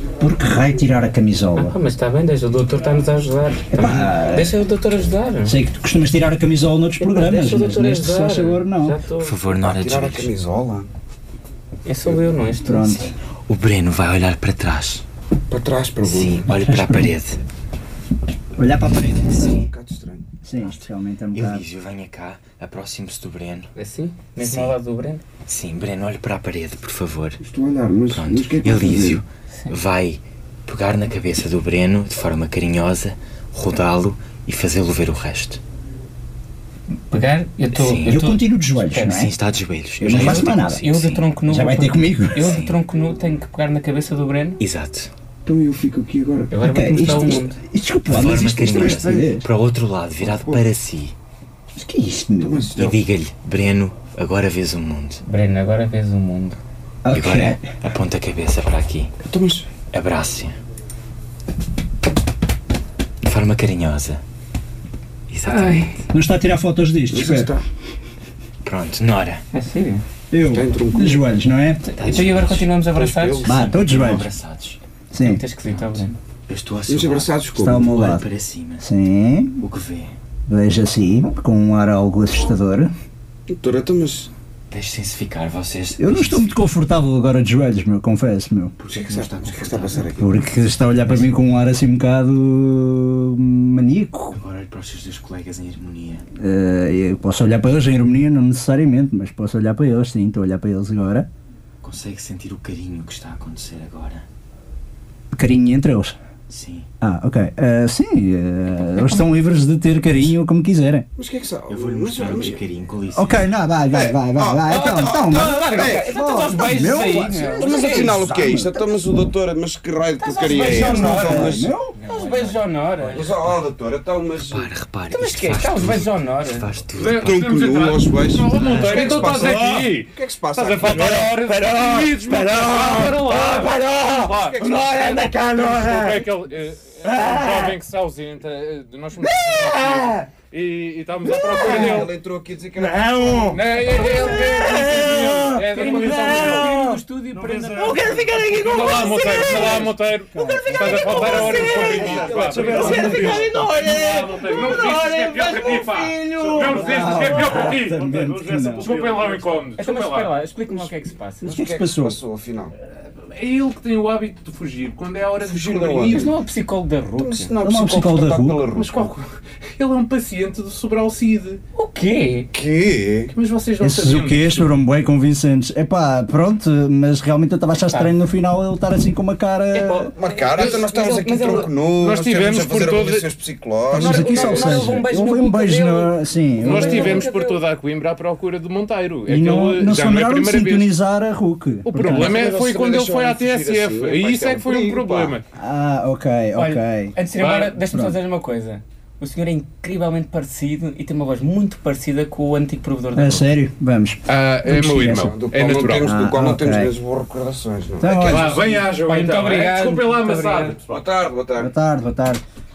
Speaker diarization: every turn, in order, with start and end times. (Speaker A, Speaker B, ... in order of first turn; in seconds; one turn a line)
Speaker A: 0.2-1.8
Speaker B: 1.6-5.6
Speaker A: 3.7-4.6
Speaker A: 5.4-9.0
Speaker B: 7.0-9.3
Speaker C: 9.2-10.3
Speaker D: 9.6-10.9
Speaker B: 11.8-13.0
Speaker A: 12.6-13.1
Speaker C: 13.4-15.0
Speaker D: 15.5-16.5
Speaker C: 16.0-17.4
Speaker A: 16.5-17.1
Speaker A: 18.6-19.4
Speaker C: 19.3-19.7
Speaker D: 19.4-20.3
Speaker A: 20.4-21.6
Speaker C: 20.6-23.7
Speaker B: 23.8-25.2
Speaker C: 24.4-24.7
Speaker C: 25.5-27.4
Speaker D: 27.4-29.2
Speaker C: 28.1-35.6
Speaker B: 37.1-39.2
Speaker C: 37.7-38.2
Speaker A: 38.0-39.3
Speaker C: 39.0-41.3
Speaker A: 40.0-40.8
Speaker B: 40.1-44.6
Speaker A: 41.5-42.5
Speaker C: 42.4-42.7
Speaker C: 44.6-45.1
Speaker D: 45.4-46.5
Speaker B: 46.5-47.6
Speaker A: 46.6-49.5
Speaker C: 48.1-51.1
Speaker D: 48.4-49.3
Speaker D: 50.2-50.6
Speaker A: 51.8-52.7
Speaker D: 52.4-53.0
Speaker C: 52.7-55.2
Speaker B: 55.2-56.6
Speaker A: 57.0-57.6
Speaker C: 57.1-59.1
Speaker D: 59.2-59.7
Speaker C: 59.9-60.5
Speaker C: 63.2-64.2
Speaker C: 65.3-66.0
Speaker B: 65.5-66.0
Speaker A: 66.1-67.5
Speaker D: 67.1-67.6
Speaker C: 68.6-69.4
Speaker B: 69.5-70.0
Speaker A: 70.3-71.8
Speaker D: 70.4-71.2
Speaker B: 71.8-73.5
Speaker C: 72.0-72.7
Speaker D: 72.9-73.6
Speaker C: 73.4-74.8
Speaker A: 73.5-74.3
Speaker A: 75.1-75.4
Speaker B: 75.2-76.2
Speaker C: 75.7-78.8
Speaker D: 76.9-77.9
Speaker A: 77.5-78.2
Speaker A: 78.8-79.6
Speaker C: 79.6-80.2
Speaker A: 80.5-82.9
Speaker D: 83.5-84.3
Speaker C: 84.7-86.6
Speaker A: 86.0-88.7
Speaker C: 88.8-90.1
Speaker D: 88.9-90.3
Speaker A: 90.2-94.4
Speaker C: 90.9-91.3
Speaker C: 94.3-96.2
Speaker A: 96.4-101.3
Speaker C: 101.8-104.2
Speaker A: 105.3-106.2
Speaker C: 106.5-106.9
Speaker A: 107.0-111.1
Speaker D: 111.2-112.6
Speaker C: 111.7-113.5
Speaker A: 113.1-118.9
Speaker D: 113.9-116.1
Speaker B: 114.7-118.1
Speaker D: 117.4-121.7
Speaker B: 120.2-123.4
Speaker A: 120.4-121.9
Speaker D: 123.1-124.7
Speaker C: 124.5-127.6
Speaker B: 125.1-126.7
Speaker E: 126.9-142.1
Speaker D: 127.0-131.4
Speaker C: 128.5-129.6
Speaker A: 129.4-129.9
Speaker A: 131.0-136.2
Speaker D: 134.3-135.1
Speaker A: 137.0-137.8
Speaker A: 139.2-140.3
Speaker A: 141.2-142.1
Speaker D: 141.6-143.7
Speaker A: 142.8-159.3
Speaker E: 143.5-146.7
Speaker B: 145.6-148.2
Speaker E: 147.8-160.3
Speaker D: 149.5-149.8
Speaker D: 150.9-153.4
Speaker B: 152.6-153.2
Speaker B: 159.8-161.5
Speaker D: 161.4-162.7
Speaker A: 161.4-162.2
Speaker E: 163.2-166.3
Speaker D: 165.4-166.3
Speaker B: 166.1-167.5
Speaker D: 167.1-169.1
Speaker A: 167.6-168.7
Speaker E: 168.7-171.6
Speaker B: 171.7-172.5
Speaker D: 172.5-173.3
Speaker E: 173.3-174.8
Speaker A: 173.8-180.1
Speaker B: 177.9-178.2
Speaker B: 179.7-181.7
Speaker D: 180.1-185.0
Speaker E: 180.6-180.8
Speaker E: 182.0-183.3
Speaker B: 183.9-187.6
Speaker A: 183.9-187.3
Speaker E: 186.6-190.9
Speaker A: 189.2-192.3
Speaker E: 191.8-195.4
Speaker D: 192.0-195.4
Speaker A: 195.5-197.1
Speaker B: 196.6-203.4
Speaker E: 197.3-197.8
Speaker A: 203.1-205.3
Speaker E: 204.3-206.1
Speaker D: 205.0-208.8
Speaker A: 206.0-206.9
Speaker A: 208.0-208.6
Speaker E: 208.2-211.0
Speaker B: 208.8-210.8
Speaker D: 210.8-211.7
Speaker A: 211.6-212.4